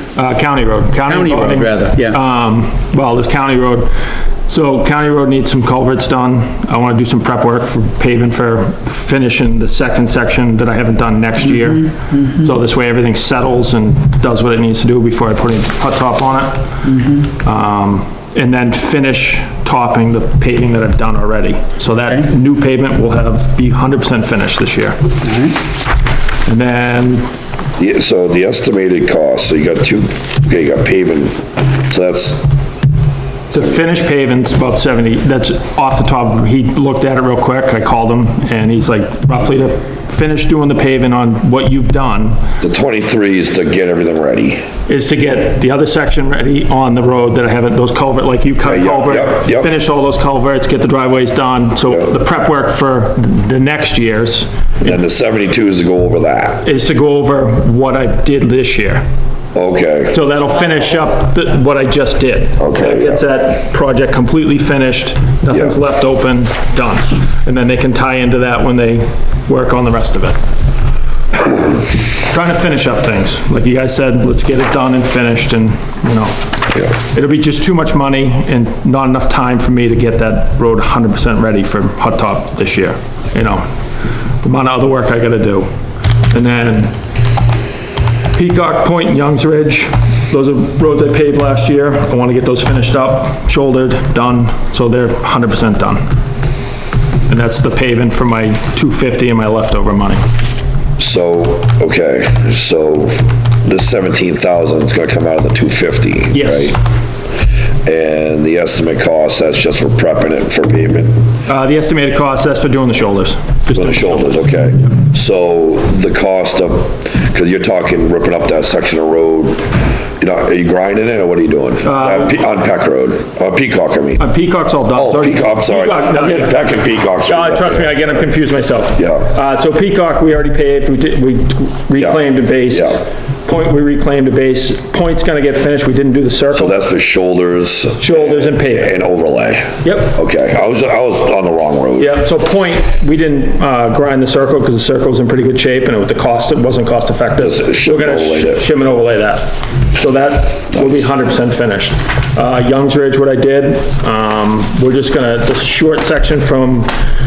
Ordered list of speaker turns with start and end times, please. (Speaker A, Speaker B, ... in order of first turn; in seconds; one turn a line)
Speaker A: 0.1-16.7
Speaker B: 1.1-2.2
Speaker B: 11.4-12.5
Speaker B: 16.8-17.3
Speaker A: 17.4-25.0
Speaker B: 25.2-25.6
Speaker A: 26.4-27.3
Speaker C: 27.8-32.5
Speaker A: 33.5-42.4
Speaker C: 42.6-44.6
Speaker A: 44.9-55.0
Speaker C: 48.6-49.7
Speaker C: 54.8-56.6
Speaker A: 56.6-59.0
Speaker C: 59.5-60.2
Speaker A: 60.1-70.4
Speaker C: 62.6-63.2
Speaker C: 65.5-65.8
Speaker A: 72.1-76.3
Speaker A: 77.0-83.7
Speaker A: 84.4-85.7
Speaker A: 86.3-86.9
Speaker A: 88.3-96.0
Speaker A: 97.3-100.2
Speaker C: 101.0-106.8
Speaker A: 106.3-106.8
Speaker C: 107.8-111.2
Speaker A: 111.5-114.4
Speaker C: 113.7-124.3
Speaker A: 121.8-122.3
Speaker A: 124.2-126.7
Speaker C: 124.9-128.4
Speaker A: 127.2-136.8
Speaker C: 128.9-129.3
Speaker C: 131.9-133.0
Speaker C: 136.5-142.2
Speaker A: 138.0-138.9
Speaker A: 139.8-140.1
Speaker A: 142.0-156.9
Speaker C: 147.4-148.6
Speaker C: 150.7-151.1